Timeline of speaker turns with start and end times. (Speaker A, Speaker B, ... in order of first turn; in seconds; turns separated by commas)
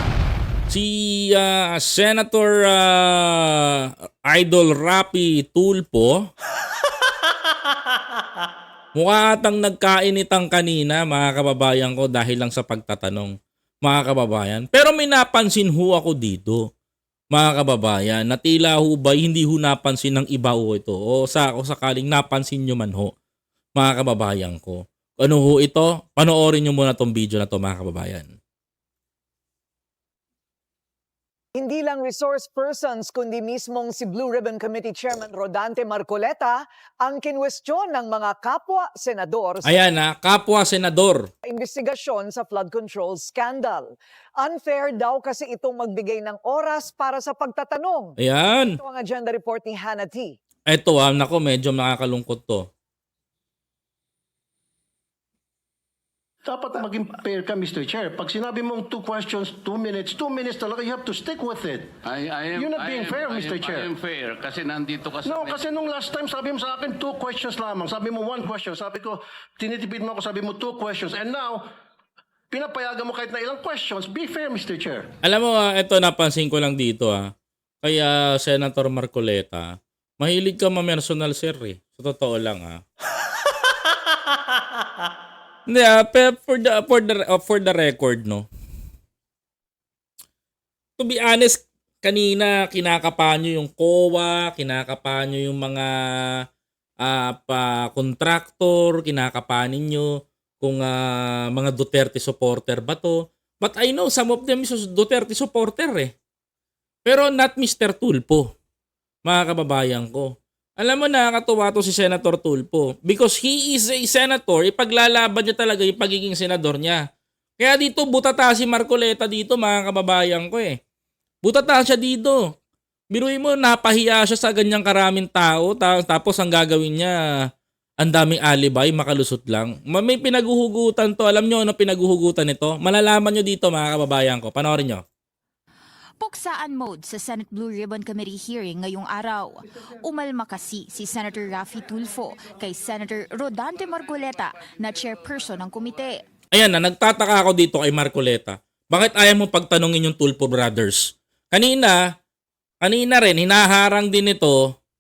Speaker A: 0.7-6.3, Speaker A: 8.9-16.7, Speaker A: 17.3-23.1, Speaker A: 23.8-28.3, Speaker B: 31.6-39.8, Speaker A: 39.6-41.2, Speaker B: 41.4-48.2, Speaker A: 48.2-48.8, Speaker B: 48.8-50.4, Speaker A: 50.7-52.7, Speaker C: 56.4-61.9, Speaker D: 62.0-65.8, Speaker C: 62.5-63.9, Speaker C: 65.2-71.6, Speaker C: 72.5-75.1, Speaker A: 75.2-77.3, Speaker A: 77.8-82.8, Speaker A: 85.7-88.5, Speaker A: 91.0-96.4, Speaker A: 97.0-106.1, Speaker A: 107.0-108.5, Speaker A: 109.2-117.0, Speaker A: 117.6-120.8, Speaker A: 121.4-122.5, Speaker A: 123.1-127.1, Speaker A: 128.0-135.0, Speaker E: 136.2-146.2, Speaker A: 146.5-152.0, Speaker A: 152.8-154.7